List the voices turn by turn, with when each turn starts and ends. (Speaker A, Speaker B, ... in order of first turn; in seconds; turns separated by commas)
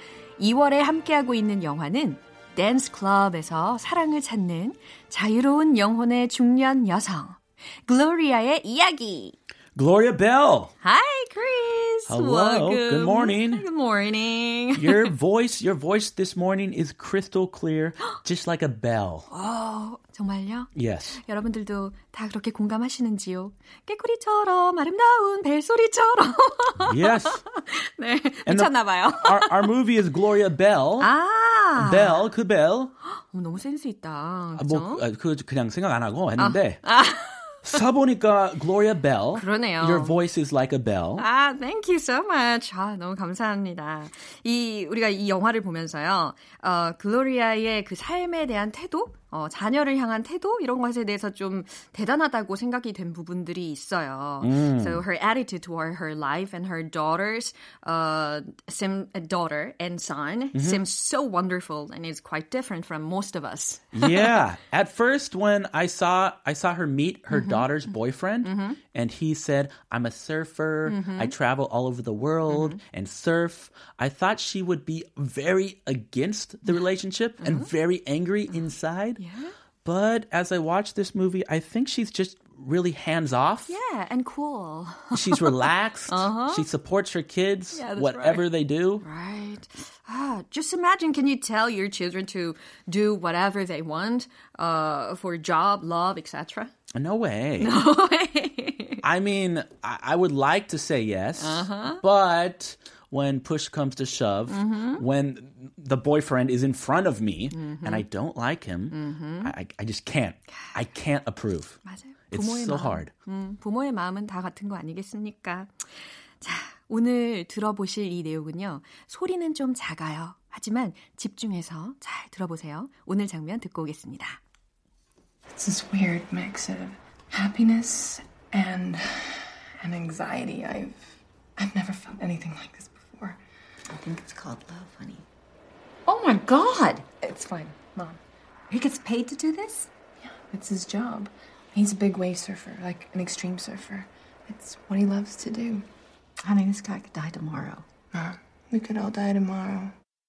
Speaker A: 0.4-9.3, Speaker B: 9.7-10.7, Speaker A: 10.8-15.1, Speaker B: 12.1-13.6, Speaker B: 14.7-19.3, Speaker A: 19.3-29.7, Speaker B: 20.7-21.2, Speaker B: 26.8-27.4, Speaker B: 28.4-31.1, Speaker A: 31.0-32.2, Speaker B: 31.8-32.9, Speaker A: 33.0-35.0, Speaker B: 34.5-36.8, Speaker A: 36.4-37.6, Speaker B: 37.6-41.2, Speaker A: 39.3-40.1, Speaker A: 41.2-64.4, Speaker B: 54.4-55.0, Speaker B: 60.5-60.8, Speaker B: 63.9-79.2, Speaker A: 67.3-67.7, Speaker A: 68.4-68.8, Speaker A: 70.8-71.3, Speaker A: 72.5-72.8, Speaker A: 77.4-77.7, Speaker A: 79.2-79.5, Speaker B: 79.8-83.8, Speaker A: 83.7-86.7, Speaker B: 85.1-89.0, Speaker A: 87.7-88.4, Speaker A: 89.0-96.7, Speaker B: 96.9-97.8, Speaker A: 97.6-99.0, Speaker B: 99.0-113.1, Speaker A: 101.4-102.0, Speaker A: 104.5-105.0, Speaker A: 107.5-108.1, Speaker A: 108.9-109.5, Speaker A: 111.8-124.4, Speaker C: 125.5-133.4, Speaker D: 133.9-135.2, Speaker D: 136.1-137.1, Speaker C: 137.2-138.2, Speaker D: 138.7-139.9, Speaker C: 140.2-145.8, Speaker D: 146.4-147.9, Speaker C: 148.1-149.9